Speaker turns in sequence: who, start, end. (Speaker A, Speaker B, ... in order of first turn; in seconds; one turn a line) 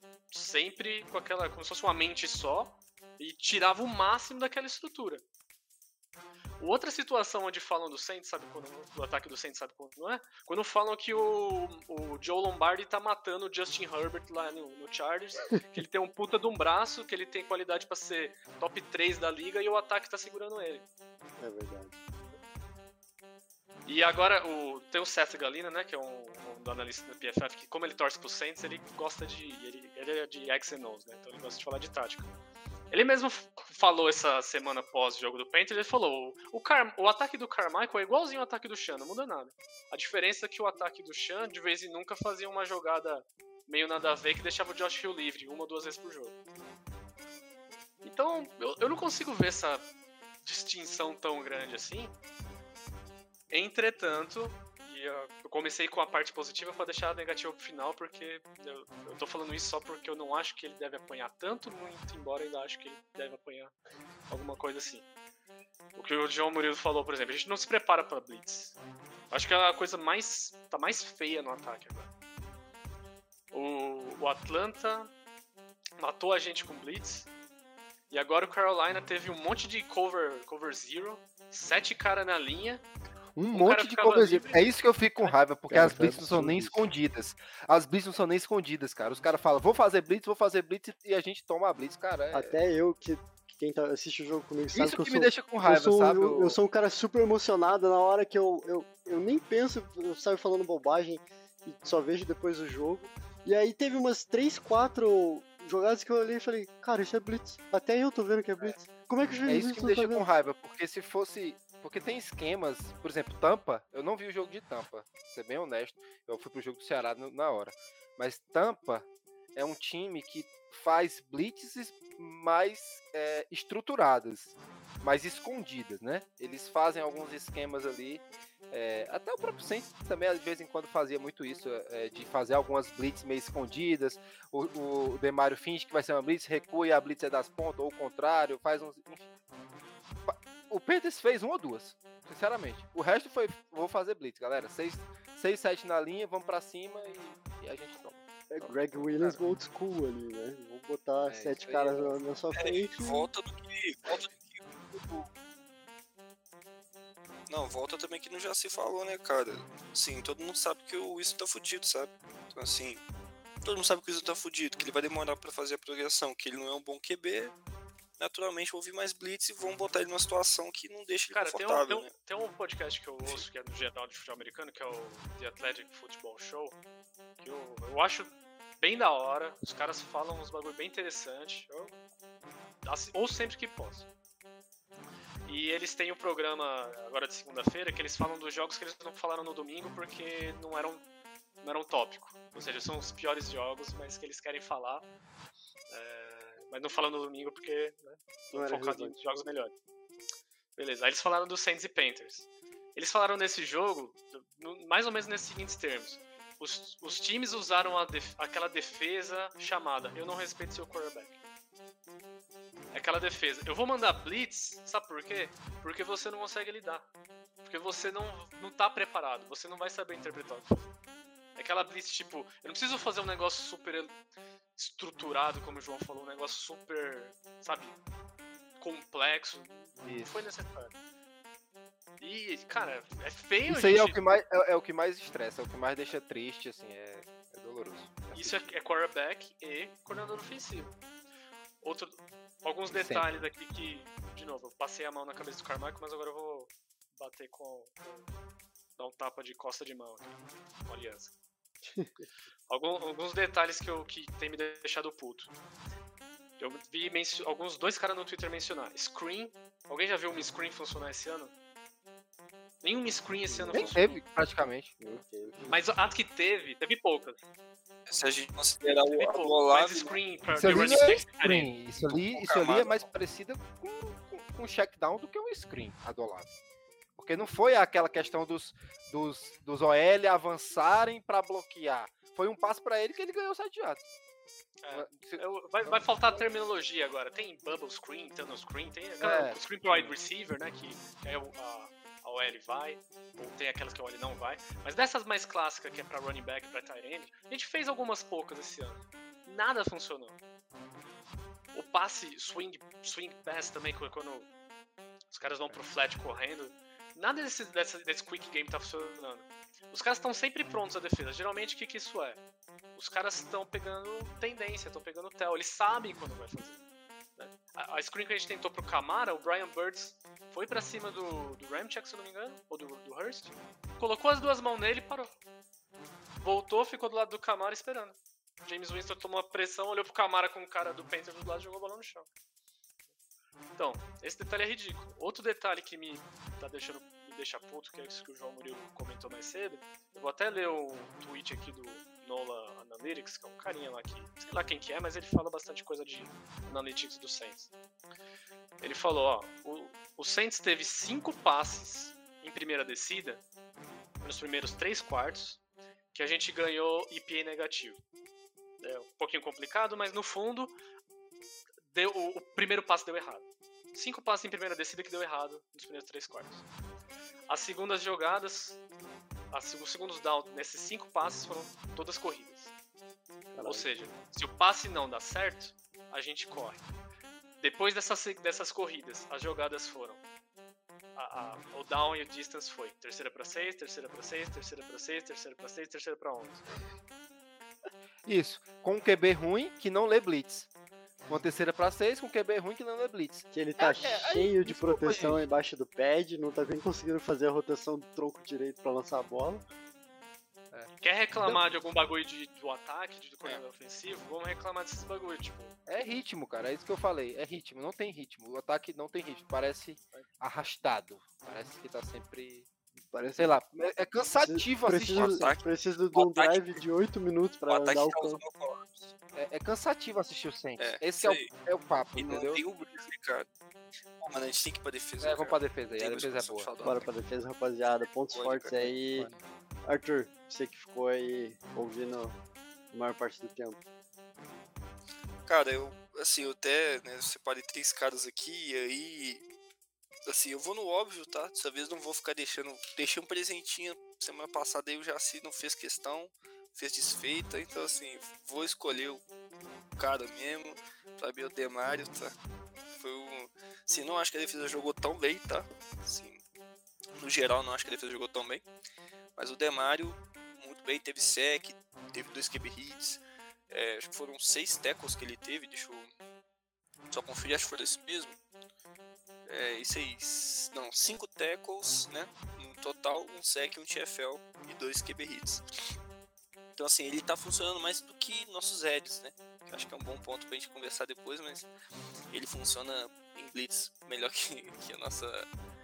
Speaker A: 0.3-5.2
Speaker A: 6.6-20.9
Speaker B: 21.4-22.0
Speaker A: 23.9-32.3
Speaker A: 32.9-46.4
Speaker A: 48.0-49.9
Speaker A: 50.4-52.1
Speaker A: 53.5-63.7
Speaker A: 64.3-65.1
Speaker A: 66.0-68.8
Speaker A: 69.3-72.1
Speaker A: 73.5-75.1
Speaker A: 76.0-77.3
Speaker A: 78.1-82.8
Speaker C: 83.4-92.6
Speaker A: 83.5-85.4
Speaker B: 85.7-86.8
Speaker B: 92.3-110.3
Speaker C: 94.7-96.6
Speaker C: 109.5-139.3
Speaker C: 140.3-149.4
Speaker B: 148.5-153.3
Speaker C: 151.3-152.2
Speaker D: 152.6-155.3
Speaker D: 157.5-163.0
Speaker D: 163.6-167.6
Speaker D: 168.2-172.1
Speaker A: 171.3-176.8
Speaker A: 177.4-181.9
Speaker A: 182.8-184.1
Speaker A: 185.4-191.0
Speaker A: 191.6-195.1
Speaker A: 195.9-199.7
Speaker B: 198.5-199.5
Speaker A: 200.8-211.4
Speaker A: 212.9-217.1
Speaker A: 217.6-221.0
Speaker A: 221.6-224.2
Speaker A: 224.8-228.0
Speaker A: 228.8-230.9
Speaker C: 230.0-230.5
Speaker A: 232.2-234.2
Speaker C: 233.7-238.8
Speaker A: 238.3-241.0
Speaker A: 241.8-248.3
Speaker C: 242.9-243.4
Speaker A: 249.0-251.3
Speaker B: 251.9-252.2
Speaker A: 252.7-255.5
Speaker A: 256.6-261.5
Speaker A: 262.8-264.2
Speaker B: 263.5-264.1
Speaker C: 263.7-264.9
Speaker B: 265.0-265.8
Speaker A: 265.7-267.5
Speaker D: 268.1-270.2
Speaker A: 269.1-271.7
Speaker C: 270.5-276.5
Speaker D: 272.3-273.0
Speaker C: 277.2-284.0
Speaker A: 284.8-300.4
Speaker C: 284.9-286.1
Speaker C: 289.2-290.2
Speaker A: 301.7-304.5
Speaker A: 305.3-312.4
Speaker C: 305.5-305.8
Speaker A: 312.9-316.8
Speaker A: 317.4-325.4
Speaker A: 326.4-332.3
Speaker A: 333.8-347.7
Speaker A: 348.8-353.4
Speaker A: 354.2-355.6
Speaker A: 356.1-358.0
Speaker A: 358.8-360.8
Speaker A: 361.9-366.6
Speaker A: 367.5-368.8
Speaker A: 369.5-372.7
Speaker B: 373.5-373.9
Speaker A: 373.6-376.8
Speaker A: 377.6-380.2
Speaker A: 381.1-386.7
Speaker C: 388.2-390.7
Speaker C: 391.3-395.5
Speaker B: 393.5-399.6
Speaker A: 401.0-405.8
Speaker C: 405.9-412.7
Speaker B: 413.1-413.6
Speaker C: 413.4-415.5
Speaker B: 414.4-418.4
Speaker D: 415.1-416.8
Speaker D: 417.7-419.1
Speaker C: 419.4-422.6
Speaker D: 420.8-421.5
Speaker D: 422.1-423.5
Speaker D: 424.2-427.1
Speaker C: 425.2-426.7
Speaker B: 426.8-429.3
Speaker D: 427.9-428.9
Speaker C: 429.1-429.4
Speaker B: 429.9-432.4
Speaker B: 432.9-433.8
Speaker D: 435.5-439.4
Speaker D: 440.2-449.2
Speaker D: 450.0-452.4
Speaker D: 452.9-456.4
Speaker D: 457.2-458.6
Speaker D: 459.4-466.1
Speaker D: 467.1-468.4
Speaker D: 469.5-475.6
Speaker D: 476.8-481.7
Speaker D: 482.3-485.5